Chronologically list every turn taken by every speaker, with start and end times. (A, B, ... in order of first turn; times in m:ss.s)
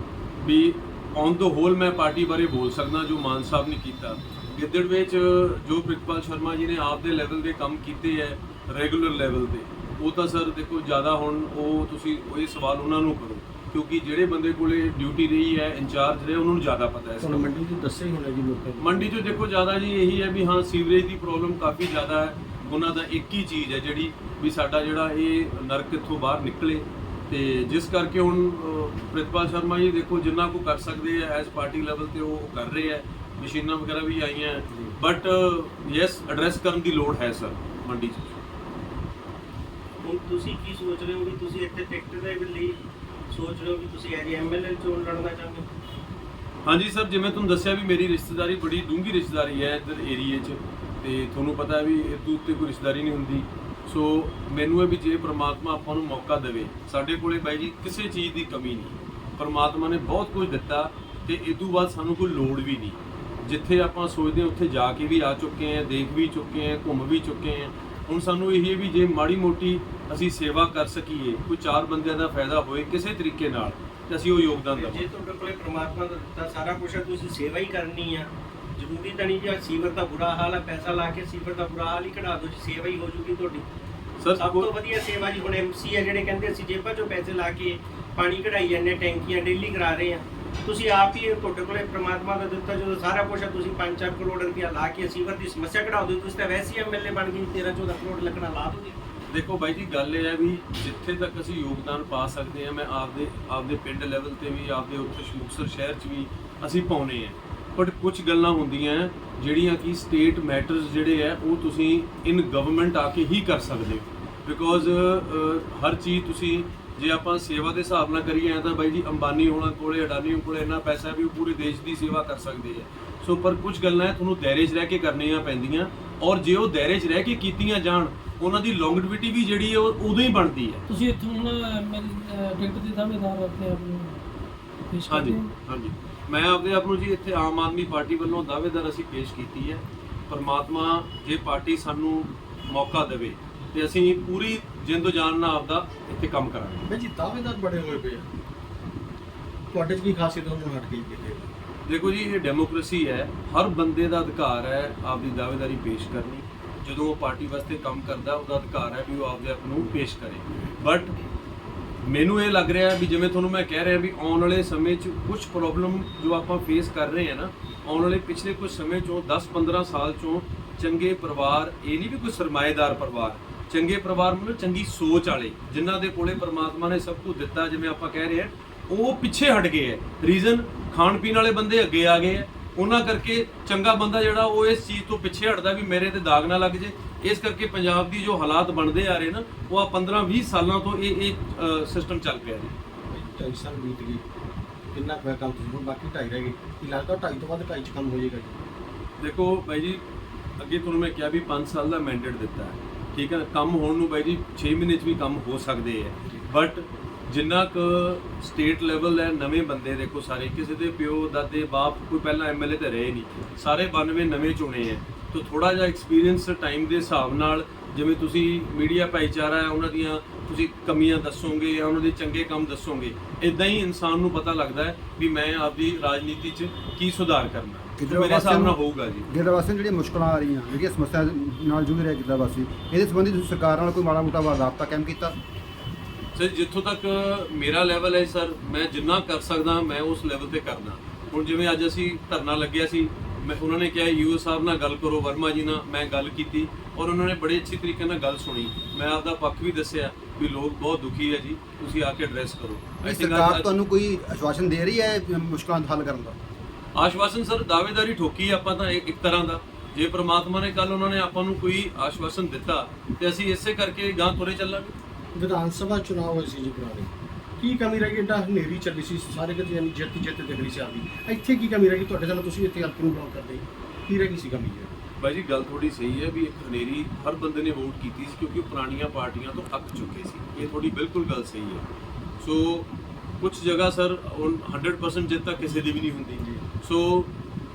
0:00.4-0:17.5 A
0:17.2-0:19.1 B
0:18.8-0:38.4 A
0:40.0-0:42.8 C
0:43.3-0:45.6 C
0:46.6-1:15.0 A
1:14.7-1:23.7 C
1:24.2-1:24.7 A
1:24.4-1:39.0 C
1:39.3-2:10.8 A
2:10.9-2:14.2 D
2:14.9-2:15.5 D
2:15.0-2:26.9 A
2:26.9-2:28.3 B
2:29.7-2:31.5 B
2:31.8-2:41.1 A
2:42.0-3:12.7 A
3:13.1-3:14.2 B
3:14.9-3:18.6 B
3:19.2-3:20.0 A
3:20.6-3:49.3 A
3:48.0-3:55.3 E
3:56.3-4:13.7 A
4:13.0-4:16.4 E
4:16.9-4:25.0 A
4:25.3-4:34.9 B
4:35.2-4:41.9 A
4:42.4-4:42.9 A
4:43.4-4:47.3 A